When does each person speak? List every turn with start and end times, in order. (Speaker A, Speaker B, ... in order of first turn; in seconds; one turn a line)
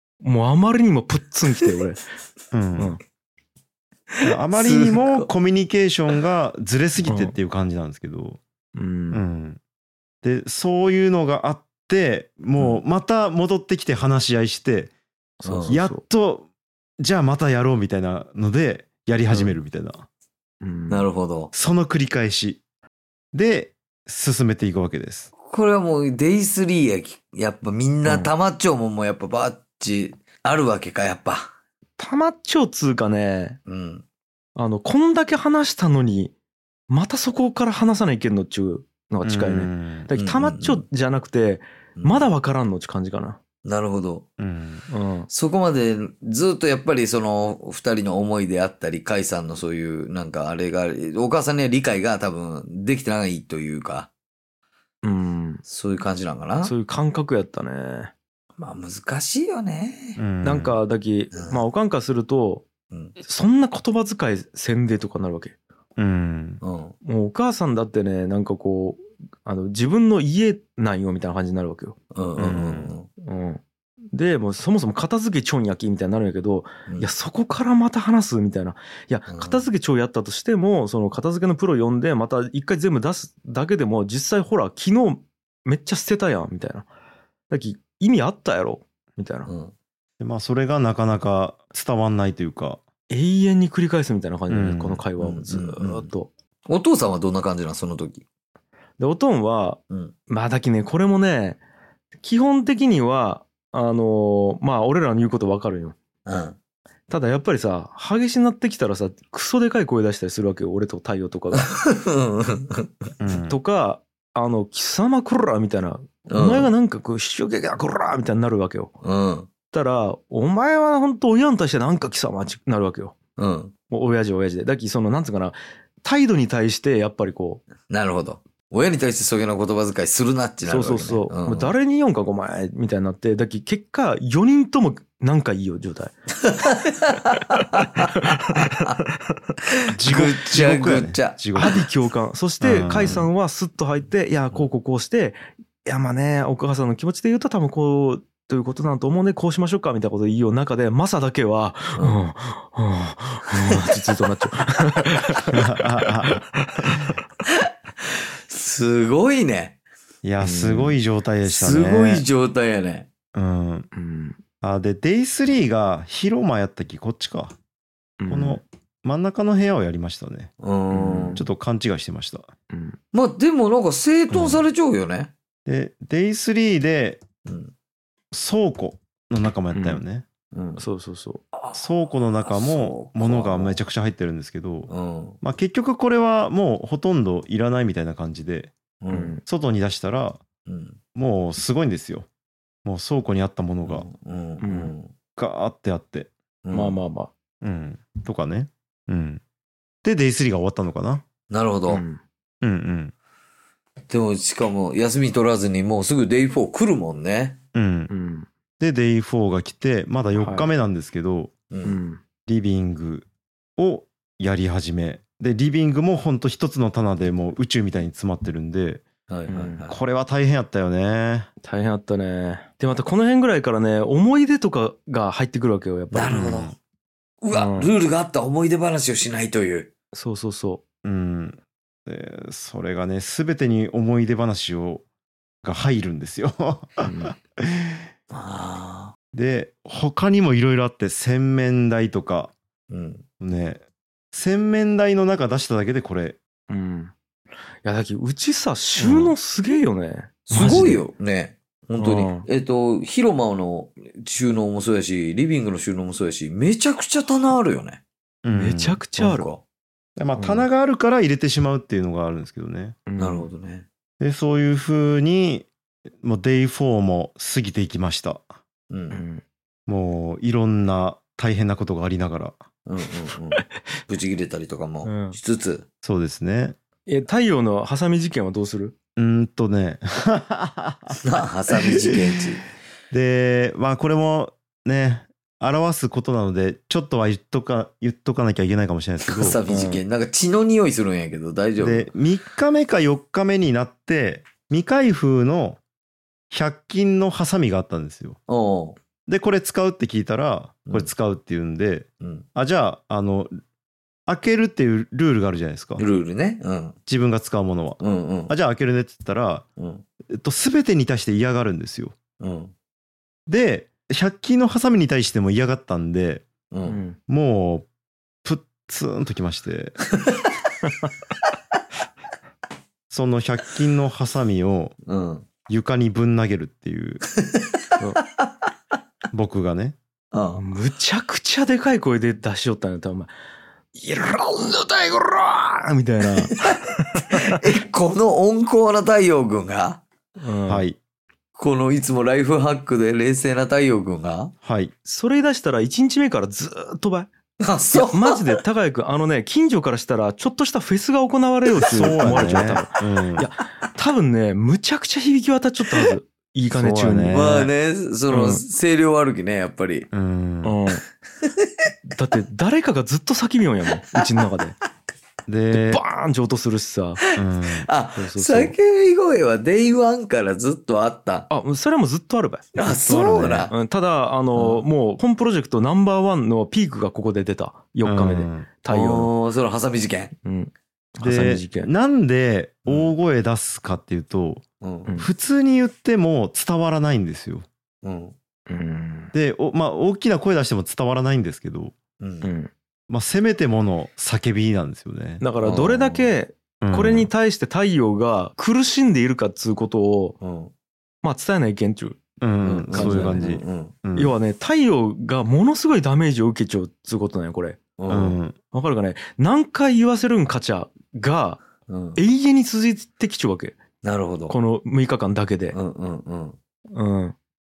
Speaker A: 0.2-2.0
Speaker B: 2.5-3.0
Speaker C: 4.1-5.3
Speaker B: 4.2-8.4
Speaker A: 7.0-7.3
Speaker A: 8.7-9.2
Speaker B: 9.1-9.6
Speaker B: 10.2-14.9
Speaker A: 15.4-16.0
Speaker C: 15.4-15.8
Speaker B: 15.7-16.4
Speaker B: 17.0-20.1
Speaker A: 20.6-21.1
Speaker C: 20.9-21.5
Speaker B: 21.5-22.6
Speaker B: 23.3-25.3
Speaker C: 25.4-31.5
Speaker A: 28.0-28.3
Speaker A: 32.0-33.6
Speaker C: 33.6-34.0
Speaker A: 34.5-36.3
Speaker A: 36.9-43.4
Speaker B: 39.2-40.1
Speaker C: 40.1-40.8
Speaker C: 42.0-42.3
Speaker C: 43.6-44.2
Speaker B: 44.4-44.9
Speaker A: 44.9-45.3
Speaker C: 45.3-54.1
Speaker A: 55.0-55.6
Speaker C: 55.7-56.7
Speaker A: 56.6-58.1
Speaker C: 58.6-60.2
Speaker B: 60.2-60.8
Speaker A: 60.4-62.7
Speaker C: 61.3-61.6
Speaker A: 63.2-65.5
Speaker B: 66.0-66.6
Speaker C: 66.6-66.9
Speaker A: 67.0-72.0
Speaker C: 72.1-73.1
Speaker B: 72.4-72.9
Speaker A: 73.2-73.6
Speaker A: 74.1-86.9
Speaker C: 79.3-79.6
Speaker A: 87.5-89.5
Speaker C: 89.5-89.7
Speaker B: 90.2-92.8
Speaker A: 93.1-96.3
Speaker B: 94.5-95.0
Speaker C: 95.2-96.1
Speaker C: 96.7-98.2
Speaker A: 99.0-101.6
Speaker A: 102.2-106.0
Speaker C: 106.2-106.6
Speaker A: 107.1-111.7
Speaker C: 111.5-113.1
Speaker B: 113.2-113.6
Speaker A: 113.3-118.9
Speaker C: 116.3-116.7
Speaker C: 119.0-119.5
Speaker A: 119.7-123.2
Speaker C: 123.4-123.7
Speaker A: 123.9-127.6
Speaker C: 127.9-131.7
Speaker A: 130.6-136.1
Speaker C: 136.4-139.0
Speaker A: 138.0-139.4
Speaker C: 139.7-141.8
Speaker B: 139.9-141.8
Speaker A: 141.6-155.6
Speaker B: 142.6-143.3
Speaker B: 155.5-156.4
Speaker A: 156.3-157.1
Speaker C: 158.5-159.8
Speaker B: 160.2-162.2
Speaker A: 160.4-161.0
Speaker C: 161.4-163.1
Speaker B: 163.3-163.9
Speaker A: 163.9-164.4
Speaker B: 164.6-167.6
Speaker A: 168.2-168.6
Speaker B: 168.3-170.5
Speaker C: 170.6-171.4
Speaker A: 170.9-171.4
Speaker B: 171.3-172.5
Speaker A: 172.7-173.0
Speaker C: 173.1-175.3
Speaker B: 174.3-174.6
Speaker B: 175.7-177.2
Speaker C: 177.4-177.7
Speaker B: 178.3-180.2
Speaker A: 179.7-180.0
Speaker C: 180.5-180.8
Speaker A: 180.8-181.4
Speaker C: 181.5-181.8
Speaker B: 181.7-184.9
Speaker C: 182.4-183.8
Speaker C: 184.9-185.4
Speaker B: 185.4-188.7
Speaker C: 189.0-189.3
Speaker A: 189.1-189.4
Speaker B: 189.4-190.4
Speaker C: 190.7-191.0
Speaker B: 191.1-192.3
Speaker B: 192.8-194.1
Speaker C: 193.8-195.1
Speaker A: 194.6-194.9
Speaker B: 195.3-196.3
Speaker C: 196.6-197.0
Speaker A: 196.7-197.3
Speaker B: 197.6-199.4
Speaker B: 200.0-201.2
Speaker C: 201.5-202.0
Speaker A: 201.9-202.2
Speaker B: 202.6-203.1
Speaker C: 204.1-207.6
Speaker B: 207.7-208.1
Speaker A: 208.1-208.5
Speaker B: 208.8-211.5
Speaker A: 210.4-210.7
Speaker C: 211.7-212.0
Speaker A: 211.8-212.2
Speaker B: 212.5-213.2
Speaker B: 213.8-219.1
Speaker C: 219.3-219.9
Speaker A: 219.5-219.8
Speaker B: 219.9-221.5
Speaker A: 221.6-226.4
Speaker C: 226.1-226.7
Speaker B: 226.3-226.7
Speaker C: 227.4-229.9
Speaker A: 227.5-227.9
Speaker A: 230.1-230.8
Speaker B: 231.0-235.0
Speaker B: 235.6-238.0
Speaker A: 237.0-237.3
Speaker C: 238.3-239.1
Speaker B: 239.3-242.5
Speaker C: 242.9-243.2
Speaker B: 243.4-246.4
Speaker A: 246.7-247.1
Speaker A: 247.8-251.0
Speaker B: 249.1-249.3
Speaker C: 250.5-258.0
Speaker A: 252.0-252.5
Speaker B: 258.4-259.0
Speaker A: 258.5-259.5
Speaker C: 259.2-259.6
Speaker B: 260.1-263.0
Speaker A: 260.4-260.6
Speaker A: 263.1-263.5
Speaker C: 263.2-263.9
Speaker B: 264.2-265.7
Speaker B: 266.2-268.4
Speaker C: 268.9-269.2
Speaker A: 269.1-269.4
Speaker B: 269.9-272.6
Speaker C: 272.9-275.9
Speaker A: 275.0-275.4
Speaker B: 276.0-276.8
Speaker A: 277.1-278.9
Speaker B: 279.2-282.4
Speaker C: 281.2-282.6
Speaker B: 283.1-289.6
Speaker C: 289.2-292.1
Speaker A: 289.7-290.0
Speaker B: 291.8-295.8
Speaker B: 296.5-298.4
Speaker C: 298.5-299.0
Speaker B: 299.3-303.5
Speaker C: 302.2-302.4
Speaker B: 304.3-306.0
Speaker C: 306.0-307.0
Speaker B: 307.1-309.6
Speaker C: 308.0-308.5
Speaker C: 309.8-310.0
Speaker B: 310.3-312.2
Speaker C: 312.4-312.7
Speaker B: 313.5-316.5
Speaker C: 316.7-317.0
Speaker A: 316.9-317.2
Speaker B: 317.3-317.9
Speaker B: 318.4-320.0
Speaker B: 323.1-324.9
Speaker C: 325.1-325.5
Speaker B: 325.7-327.2
Speaker C: 327.4-327.7
Speaker B: 329.3-330.0
Speaker C: 330.3-330.6
Speaker A: 330.6-333.3
Speaker A: 333.9-337.6
Speaker C: 337.3-340.0
Speaker A: 340.4-340.8
Speaker B: 340.7-341.0
Speaker C: 341.6-344.5
Speaker B: 344.6-344.9
Speaker A: 345.0-347.3
Speaker C: 347.6-348.5
Speaker A: 347.9-357.4
Speaker B: 351.8-353.5
Speaker B: 356.7-357.7
Speaker C: 357.3-360.1
Speaker A: 358.3-358.6
Speaker B: 360.1-360.8
Speaker A: 360.6-361.0
Speaker C: 361.4-361.7
Speaker A: 362.1-364.8
Speaker B: 365.5-366.0
Speaker A: 365.7-367.2
Speaker B: 367.3-367.9
Speaker C: 367.6-371.5
Speaker A: 368.1-368.7
Speaker A: 371.5-372.7
Speaker C: 372.7-373.7
Speaker B: 372.8-373.7
Speaker A: 373.7-379.3
Speaker C: 374.5-374.8
Speaker B: 378.0-378.7
Speaker C: 378.9-380.3
Speaker A: 380.4-381.9
Speaker B: 381.2-384.6
Speaker C: 382.9-383.1
Speaker C: 384.8-385.1
Speaker B: 385.2-387.6
Speaker C: 388.0-388.3
Speaker A: 388.7-389.3
Speaker B: 389.3-391.9
Speaker C: 392.2-392.5
Speaker A: 392.4-392.7
Speaker B: 393.1-395.4
Speaker A: 395.4-400.4
Speaker C: 395.6-396.3
Speaker B: 396.8-397.3
Speaker C: 400.4-400.7
Speaker A: 401.2-402.2
Speaker B: 402.4-404.3
Speaker C: 402.6-403.9
Speaker A: 402.9-403.4
Speaker A: 404.1-407.8
Speaker C: 408.0-408.4
Speaker B: 408.1-408.6
Speaker A: 408.7-411.6
Speaker C: 411.9-412.2
Speaker A: 412.1-413.8
Speaker C: 414.0-414.6
Speaker A: 414.5-415.8
Speaker C: 415.7-416.6
Speaker A: 416.9-417.4